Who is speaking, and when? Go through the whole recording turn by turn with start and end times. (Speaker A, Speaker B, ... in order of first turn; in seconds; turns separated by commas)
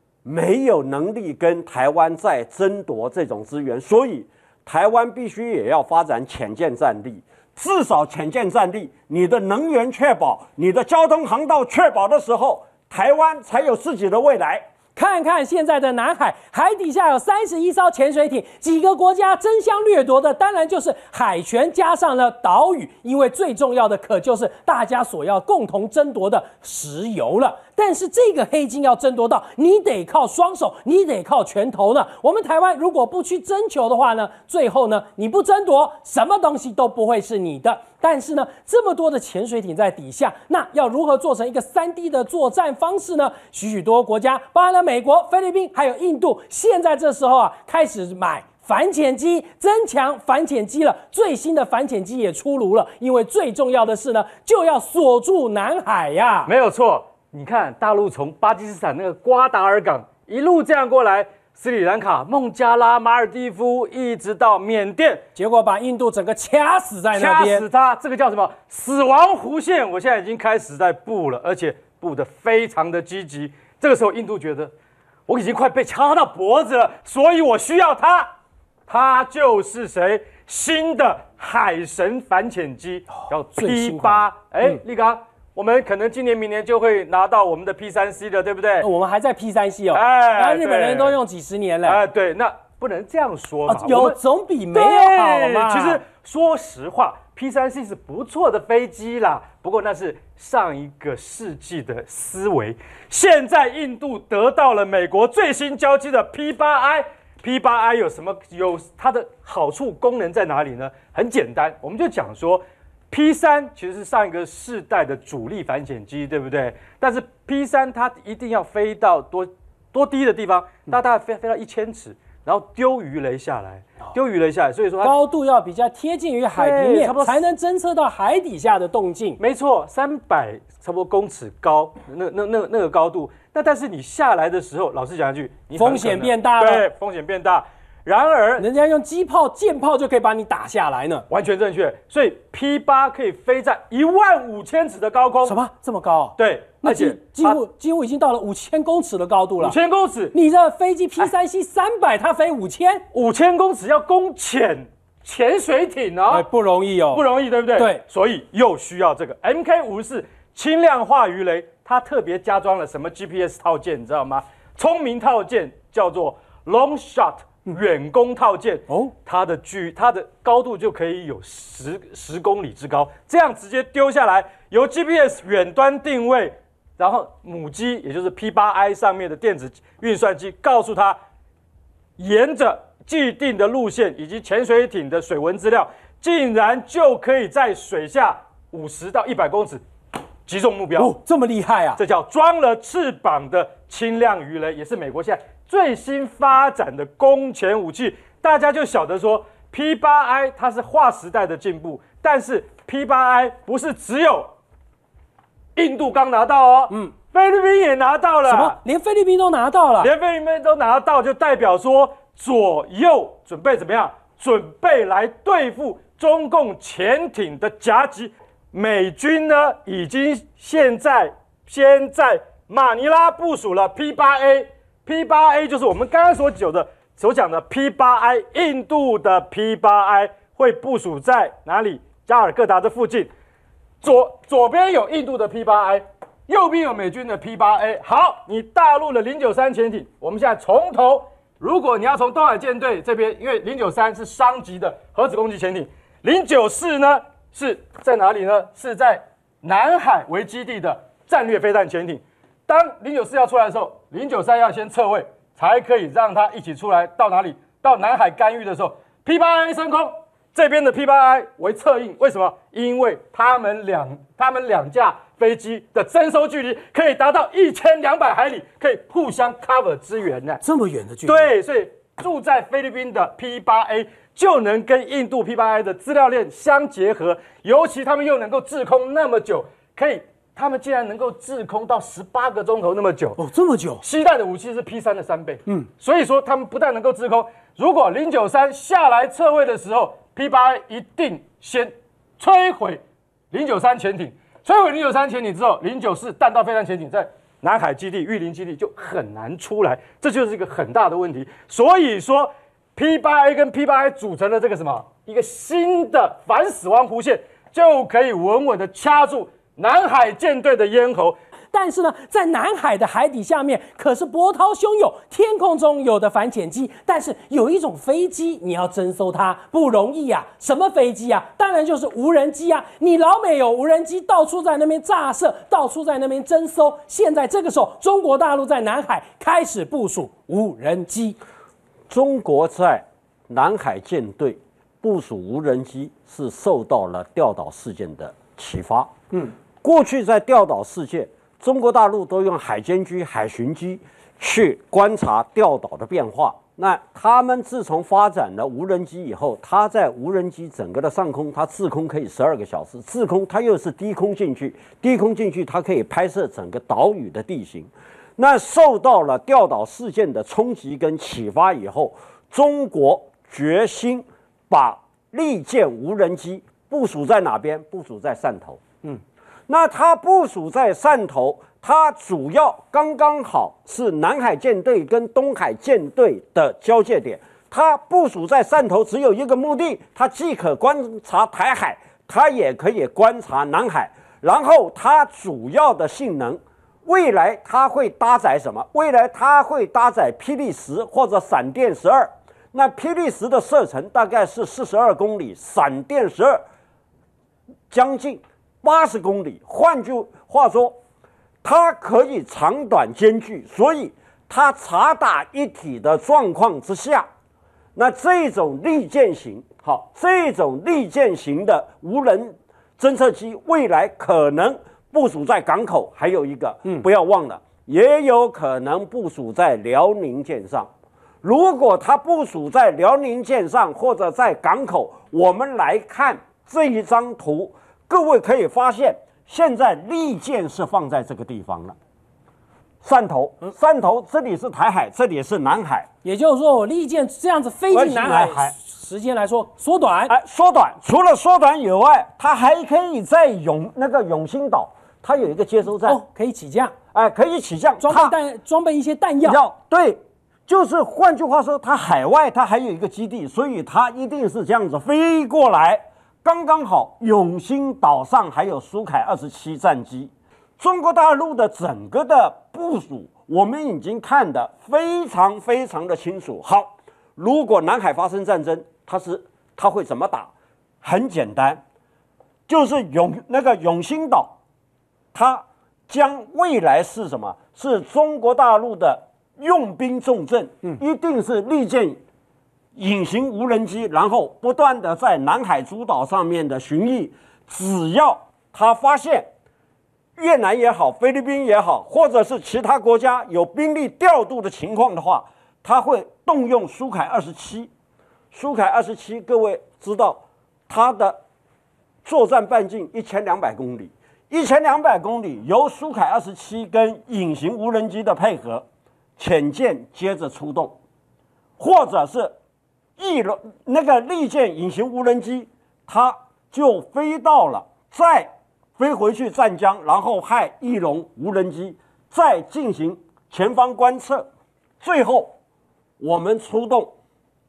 Speaker A: 0.2-14.7, Speaker B: 14.9-56.5, Speaker C: 56.5-65.2, Speaker B: 65.3-67.6, Speaker C: 67.1-74.7, Speaker C: 75.3-78.3, Speaker C: 78.9-88.9, Speaker B: 83.2-84.8, Speaker B: 88.8-92.0, Speaker C: 89.9-91.2, Speaker C: 91.8-94.2, Speaker B: 93.7-96.0, Speaker C: 94.7-125.1, Speaker B: 125.0-129.4, Speaker C: 126.5-127.4, Speaker C: 129.4-138.7, Speaker B: 135.8-136.8, Speaker B: 138.6-141.2, Speaker C: 141.3-145.6, Speaker B: 145.4-149.8, Speaker C: 146.4-147.6, Speaker C: 149.6-150.3, Speaker B: 150.3-153.0, Speaker C: 153.1-156.4, Speaker B: 156.3-157.2, Speaker C: 157.1-181.2, Speaker B: 157.8-158.0, Speaker C: 182.2-189.8, Speaker C: 190.4-191.2, Speaker B: 191.0-192.0, Speaker C: 192.0-204.5, Speaker C: 205.8-208.8, Speaker B: 208.4-210.1, Speaker C: 210.0-233.3, Speaker C: 234.0-270.6, Speaker B: 270.6-271.5, Speaker C: 271.2-283.4, Speaker B: 283.4-284.0, Speaker C: 284.0-311.4, Speaker B: 311.7-331.4, Speaker A: 332.1-339.1, Speaker A: 339.8-368.8, Speaker A: 369.7-396.6, Speaker A: 397.9-401.0, Speaker A: 401.6-407.3, Speaker A: 407.9-420.9, Speaker A: 421.4-431.9, Speaker A: 433.0-436.1, Speaker B: 436.2-440.3, Speaker A: 437.9-438.7, Speaker A: 440.3-446.2, Speaker B: 446.1-446.9, Speaker A: 447.1-448.3, Speaker B: 448.0-449.6, Speaker A: 449.4-471.8, Speaker A: 472.7-474.6, Speaker A: 475.3-482.2, Speaker A: 482.9-489.5, Speaker A: 490.4-497.9, Speaker A: 498.5-501.4, Speaker A: 502.2-508.9, Speaker A: 509.4-511.0, Speaker A: 511.8-512.5, Speaker A: 513.2-524.5, Speaker A: 525.0-525.5, Speaker A: 526.2-527.1